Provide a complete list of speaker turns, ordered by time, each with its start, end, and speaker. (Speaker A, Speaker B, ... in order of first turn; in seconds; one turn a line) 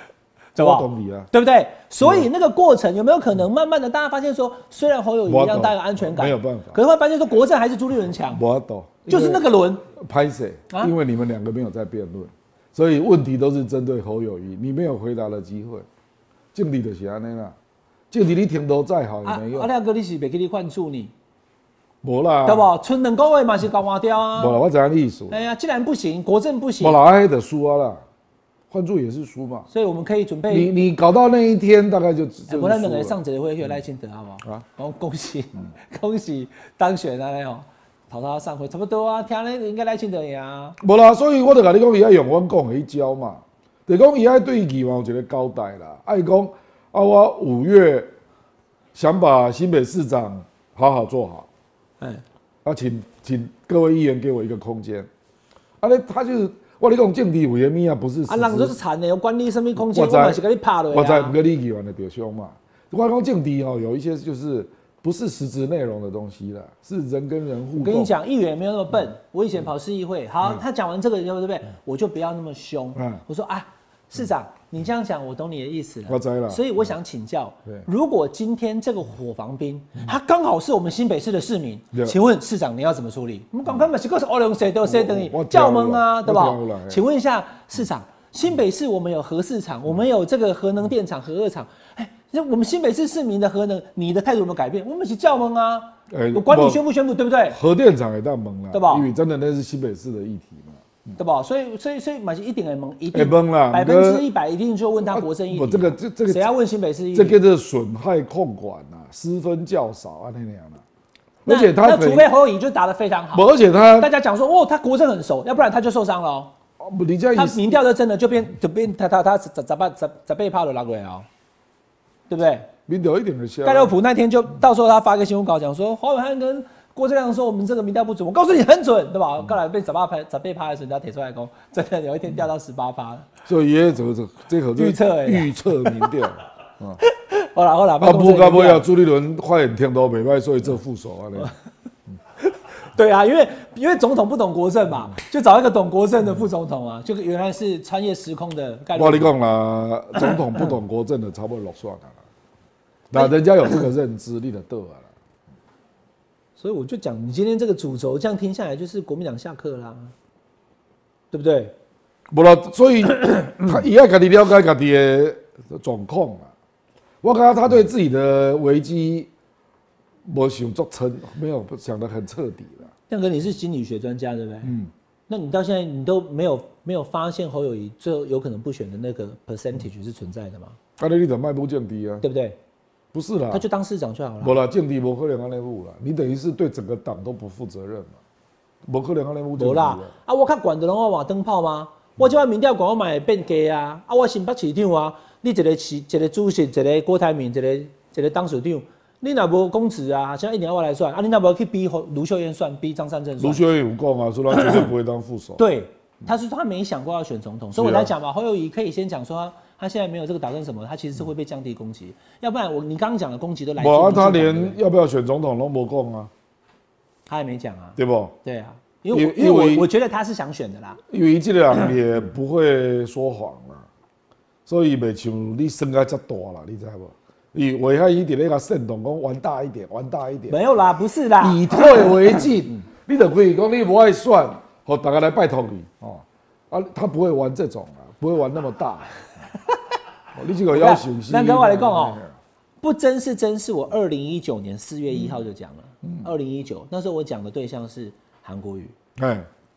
Speaker A: 0.5-8.4
Speaker B: 0.6-1.3
Speaker B: 2.0-2.3
Speaker B: 5.3-6.8
Speaker B: 8.3-9.4
Speaker A: 9.1-9.8
Speaker B: 9.9-15.8
Speaker B: 16.5-17.5
Speaker B: 18.1-19.7
Speaker A: 19.2-21.1
Speaker B: 22.0-22.7
Speaker A: 22.4-24.6
Speaker B: 24.4-25.4
Speaker A: 25.3-27.0
Speaker B: 26.8-28.0
Speaker B: 28.7-29.7
Speaker A: 29.7-30.7
Speaker B: 30.5-33.1
Speaker A: 32.5-40.8
Speaker B: 40.8-48.1
Speaker B: 48.9-51.5
Speaker B: 52.6-55.1
Speaker B: 55.8-58.7
Speaker A: 58.3-61.3
Speaker B: 59.8-68.1
Speaker A: 67.8-97.6
Speaker B: 73.0-73.2
Speaker B: 76.1-76.6
Speaker B: 84.8-87.0
Speaker B: 96.1-96.8
Speaker B: 97.5-101.2
Speaker A: 98.7-99.1
Speaker A: 101.2-107.4
Speaker B: 103.1-104.2
Speaker B: 105.1-106.5
Speaker B: 107.1-110.8
Speaker B: 111.4-112.3
Speaker A: 111.5-116.5
Speaker B: 113.3-114.1
Speaker B: 116.8-117.6
Speaker A: 117.3-121.3
Speaker A: 122.3-122.7
Speaker B: 122.9-123.9
Speaker A: 123.6-133.3
Speaker B: 133.4-137.0
Speaker A: 134.7-136.2
Speaker A: 137.0-138.9
Speaker B: 138.0-141.5
Speaker A: 142.8-149.3
Speaker B: 148.9-152.1
Speaker B: 153.1-155.1
Speaker A: 156.6-160.1
Speaker A: 161.3-161.7
Speaker B: 162.3-166.5
Speaker B: 167.2-169.3
Speaker B: 170.3-172.9
Speaker A: 173.1-174.7
Speaker B: 174.6-174.9
Speaker A: 175.3-180.8
Speaker B: 181.0-182.2
Speaker A: 182.2-182.6
Speaker B: 183.1-183.6
Speaker A: 183.5-184.6
Speaker B: 184.4-188.2
Speaker B: 188.8-190.1
Speaker A: 189.6-203.6
Speaker B: 203.4-205.6
Speaker A: 204.5-204.9
Speaker A: 205.6-214.8
Speaker B: 207.7-208.1
Speaker B: 213.8-216.3
Speaker A: 217.3-221.0
Speaker B: 218.0-218.3
Speaker B: 219.1-219.9
Speaker B: 221.1-223.9
Speaker B: 224.7-230.6
Speaker A: 230.5-232.4
Speaker B: 231.4-239.2
Speaker B: 240.3-242.3
Speaker A: 240.7-242.2
Speaker A: 242.8-248.9
Speaker B: 249.2-249.5